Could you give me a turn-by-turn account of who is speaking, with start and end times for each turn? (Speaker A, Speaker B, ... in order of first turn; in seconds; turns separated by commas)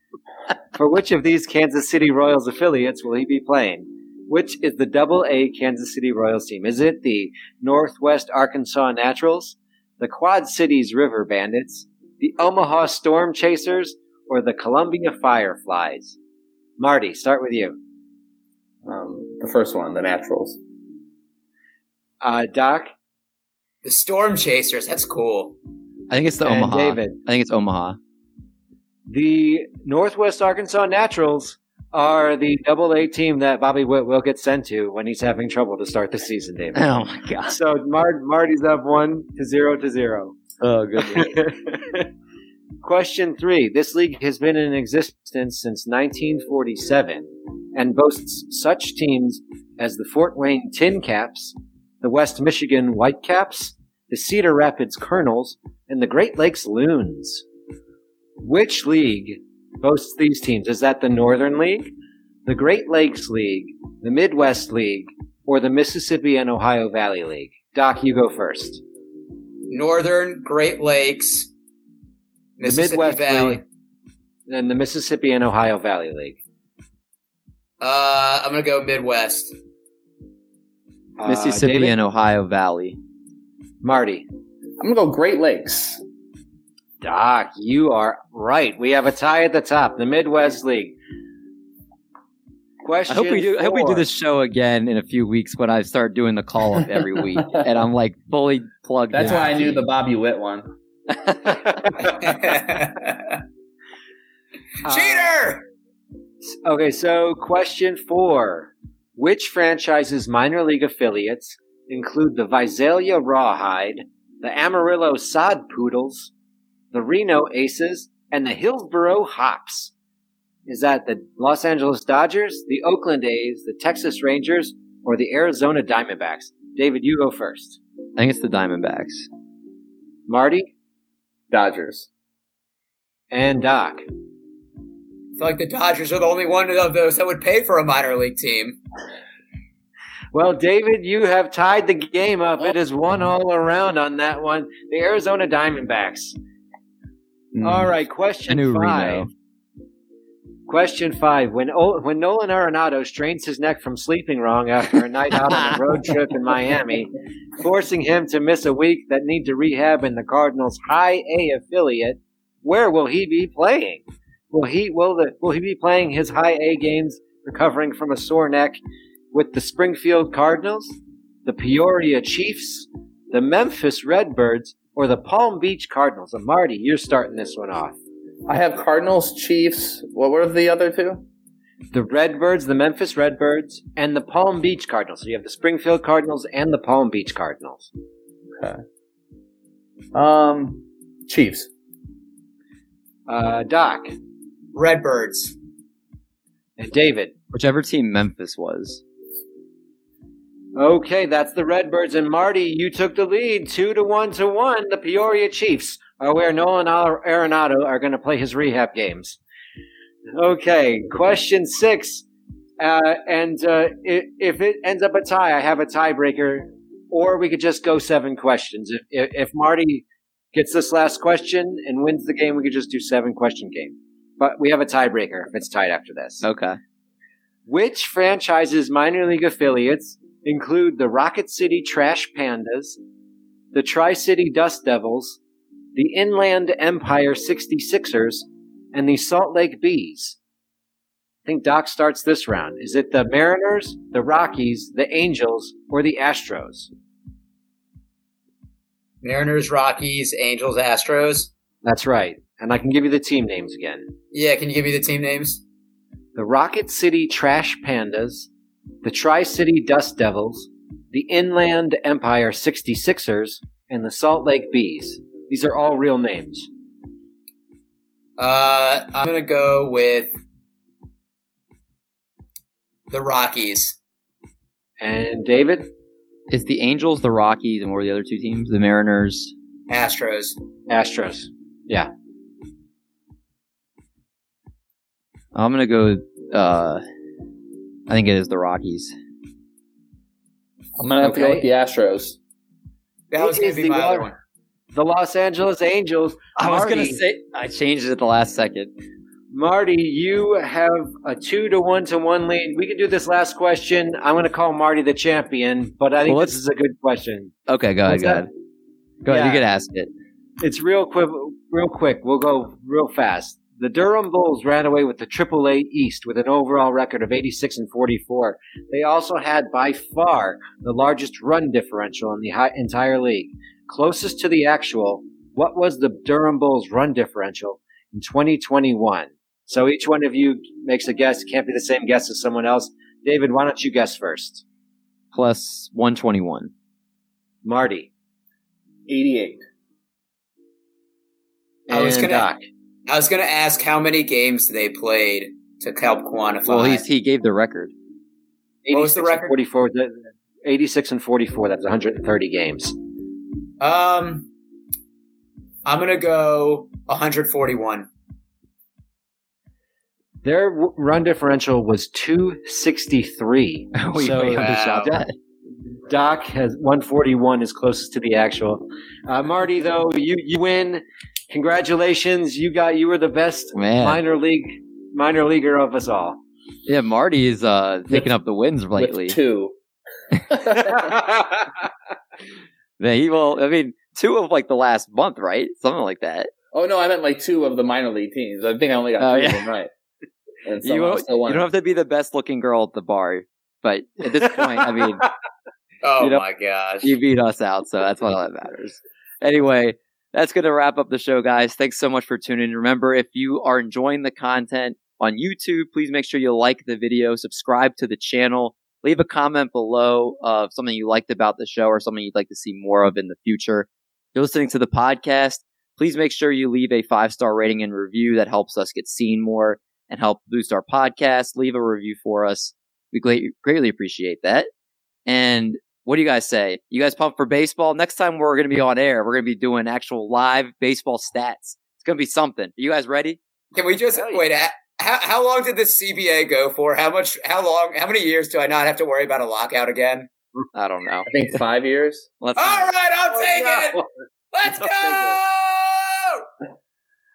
Speaker A: 0.7-16.2, Speaker A: 16.8-17.8, Speaker B: 18.9-20.6, Speaker A: 22.2-22.9, Speaker C: 23.8-25.6, Speaker D: 26.1-28.0, Speaker A: 26.4-27.2, Speaker A: 29.1-36.9, Speaker D: 36.7-37.6, Speaker A: 37.5-40.5, Speaker D: 40.6-41.4, Speaker A: 41.0-42.1, Speaker A: 42.8-57.5, Speaker A: 58.4-61.9, Speaker A: 62.5-68.8, Speaker C: 69.7-71.5, Speaker C: 72.6-73.6, Speaker A: 72.6-73.6, Speaker A: 74.5-76.4, Speaker C: 77.8-79.6, Speaker A: 81.2-82.0, Speaker D: 81.3-83.0, Speaker A: 83.8-84.3, Speaker B: 84.8-86.0, Speaker A: 87.0-91.0, Speaker A: 92.8-94.0, Speaker D: 93.1-99.9, Speaker B: 99.1-100.7, Speaker D: 101.3-101.7, Speaker C: 102.2-103.4, Speaker A: 104.8-105.3, Speaker C: 104.9-105.6, Speaker A: 106.5-116.3, Speaker A: 116.9-119.9, Speaker A: 120.7-127.8, Speaker D: 128.2-129.3, Speaker A: 130.3-130.7, Speaker B: 131.5-132.1, Speaker A: 133.3-134.1, Speaker C: 135.4-138.8, Speaker A: 140.3-146.3, Speaker B: 147.6-147.8, Speaker A: 147.6-149.3, Speaker D: 148.5-149.3, Speaker A: 150.7-168.8, Speaker A: 169.3-178.0, Speaker B: 178.5-181.3, Speaker A: 181.9-187.9, Speaker B: 190.1-191.7, Speaker A: 193.3-194.1, Speaker C: 194.7-195.6, Speaker A: 196.8-197.4, Speaker D: 197.5-199.0, Speaker A: 200.8-209.4, Speaker A: 210.3-212.3, Speaker A: 212.8-226.4, Speaker D: 226.4-226.8, Speaker A: 227.7-233.0, Speaker A: 233.7-235.4, Speaker A: 235.9-240.4, Speaker A: 241.4-246.9, Speaker C: 249.2-251.5, Speaker A: 251.8-254.1, Speaker C: 254.3-255.6, Speaker A: 256.4-258.5, Speaker A: 259.0-266.7, Speaker C: 268.4-270.4, Speaker C: 273.1-274.0, Speaker A: 275.0-275.9, Speaker D: 276.5-279.5, Speaker C: 279.9-280.6, Speaker A: 280.9-282.1, Speaker D: 285.5-287.0, Speaker D: 288.1-289.1, Speaker B: 291.0-292.4, Speaker A: 291.2-291.7, Speaker C: 293.3-294.4, Speaker A: 293.4-294.3, Speaker A: 294.9-297.2, Speaker D: 296.6-298.9, Speaker A: 299.5-307.5, Speaker D: 306.2-306.6, Speaker D: 307.7-308.5, Speaker A: 308.1-308.4, Speaker D: 309.2-310.1, Speaker A: 309.3-309.6, Speaker A: 310.6-334.6, Speaker D: 335.3-336.7, Speaker A: 337.6-338.1, Speaker B: 339.1-339.6, Speaker A: 341.9-342.6, Speaker C: 341.9-342.5, Speaker C: 343.1-347.0, Speaker D: 346.7-347.9, Speaker A: 348.9-353.0, Speaker C: 348.9-349.6, Speaker C: 353.8-354.5, Speaker C: 355.9-358.1, Speaker A: 360.4-365.3, Speaker D: 364.0-365.3, Speaker C: 364.5-365.2, Speaker A: 366.1-376.4, Speaker D: 373.8-374.2, Speaker D: 376.9-379.4, Speaker B: 378.9-379.8, Speaker B: 380.5-381.2, Speaker A: 380.8-381.7, Speaker D: 383.0-386.5, Speaker B: 386.7-389.9, Speaker D: 389.2-389.7, Speaker B: 390.6-391.7, Speaker D: 390.8-395.2, Speaker C: 396.0-397.1, Speaker D: 397.0-424.7, Speaker D: 425.3-433.4, Speaker C: 433.7-440.3, Speaker D: 440.7-441.6, Speaker B: 441.3-442.3, Speaker D: 442.4-442.9, Speaker C: 442.6-446.4, Speaker A: 443.3-444.1, Speaker A: 444.9-445.4